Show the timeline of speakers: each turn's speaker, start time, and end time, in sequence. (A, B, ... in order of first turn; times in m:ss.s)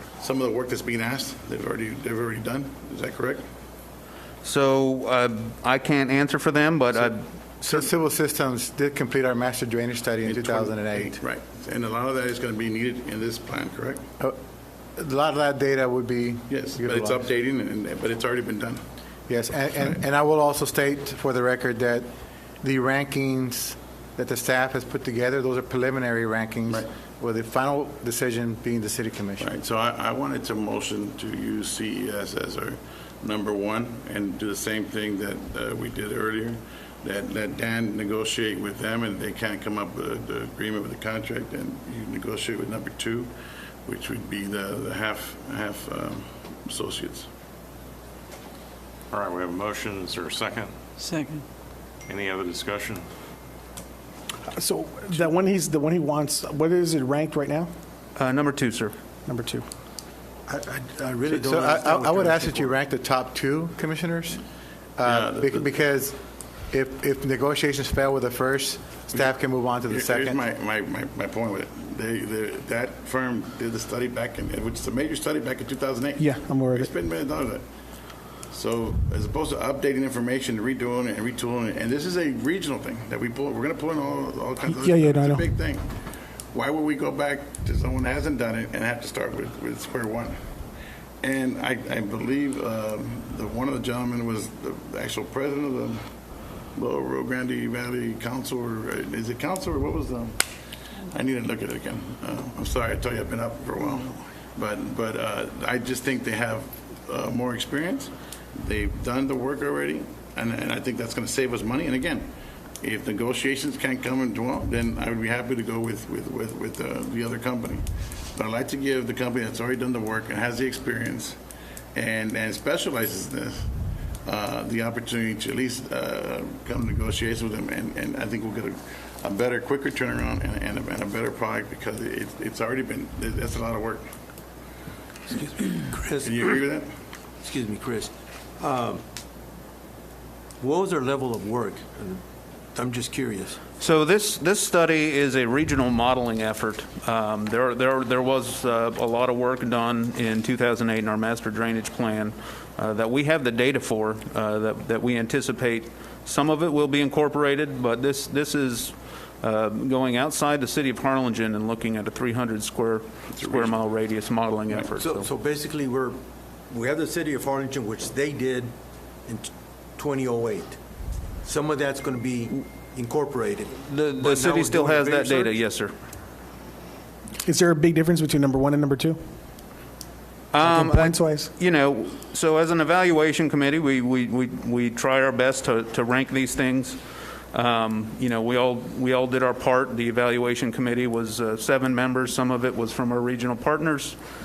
0:00.2-0:03.4 A
0:04.4-0:07.2 B
0:07.6-0:11.2 C
0:10.2-0:14.0 A
0:15.0-0:17.3 C
0:16.5-0:18.8 A
0:19.3-0:22.1 C
0:22.6-0:29.5 C
0:29.4-0:43.3 A
0:43.8-0:47.3 A
0:49.1-0:50.7 D
0:52.1-0:53.1 D
0:54.5-0:57.7 E
0:58.2-0:58.9 B
0:59.2-0:59.6 E
1:00.5-1:02.7 F
1:01.3-1:04.4 C
1:05.0-1:06.2 C
1:05.0-1:05.7 A
1:06.7-1:10.4 C
1:09.9-1:17.6 A
1:16.2-1:16.9 E
1:18.5-1:25.9 A
1:24.6-1:25.4 E
1:26.5-1:30.4 A
1:31.2-1:36.1 A
1:36.7-1:40.5 A
1:41.0-2:01.4 A
2:01.9-2:03.7 A
2:04.2-2:14.1 A
2:15.3-2:16.5 F
2:16.2-2:16.9 A
2:17.4-2:19.0 F
2:20.6-2:22.2 F
2:22.7-2:23.6 F
2:23.8-2:45.3 B
2:43.3-2:43.8 A
2:45.0-2:48.7 F
2:49.2-2:50.8 F
2:51.4-2:55.6 F
2:53.8-2:55.9 B
2:57.4-2:59.2 E
3:00.5-3:07.0 B
3:00.6-3:01.5 E
3:07.5-3:14.2 B